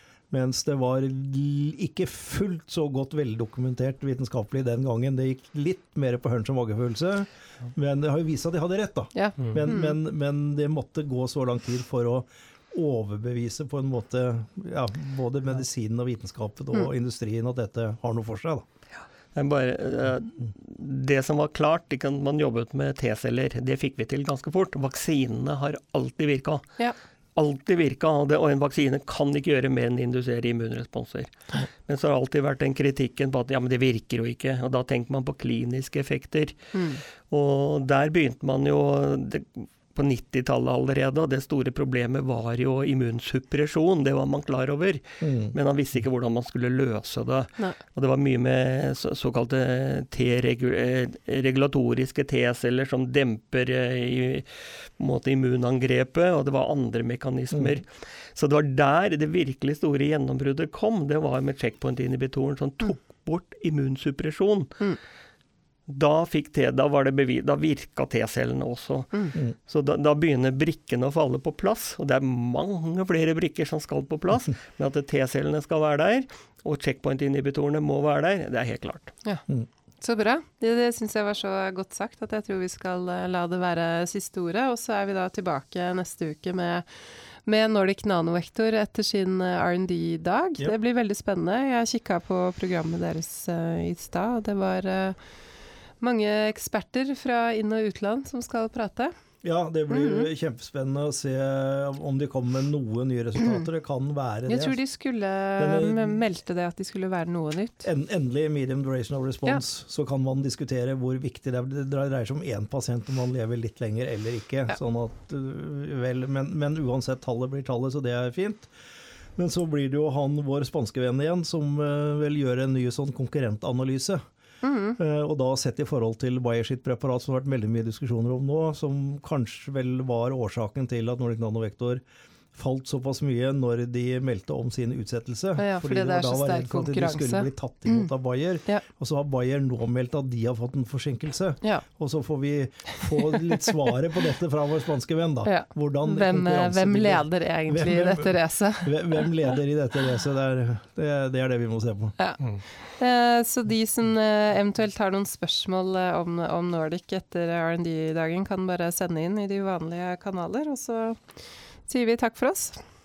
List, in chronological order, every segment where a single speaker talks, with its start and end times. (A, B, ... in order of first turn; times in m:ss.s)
0:00.3-0:18.6 A
0:09.1-0:10.0 B
0:19.4-0:26.8 C
0:27.4-1:04.8 C
0:36.7-0:37.0 B
0:45.2-0:45.5 A
0:57.5-0:57.8 A
1:05.9-1:19.1 C
1:20.0-1:35.2 B
1:36.0-1:39.1 B
1:39.4-1:44.8 A
1:39.9-1:40.3 B
1:44.5-1:47.9 B
1:45.6-1:46.2 A
1:47.8-1:58.7 A
1:59.4-2:04.2 A
2:04.6-2:05.0 B
2:05.0-2:12.0 A
2:12.6-2:32.2 A
2:15.6-2:18.1 B
2:25.4-2:29.5 B
2:32.2-2:41.2 B
2:41.9-2:42.8 B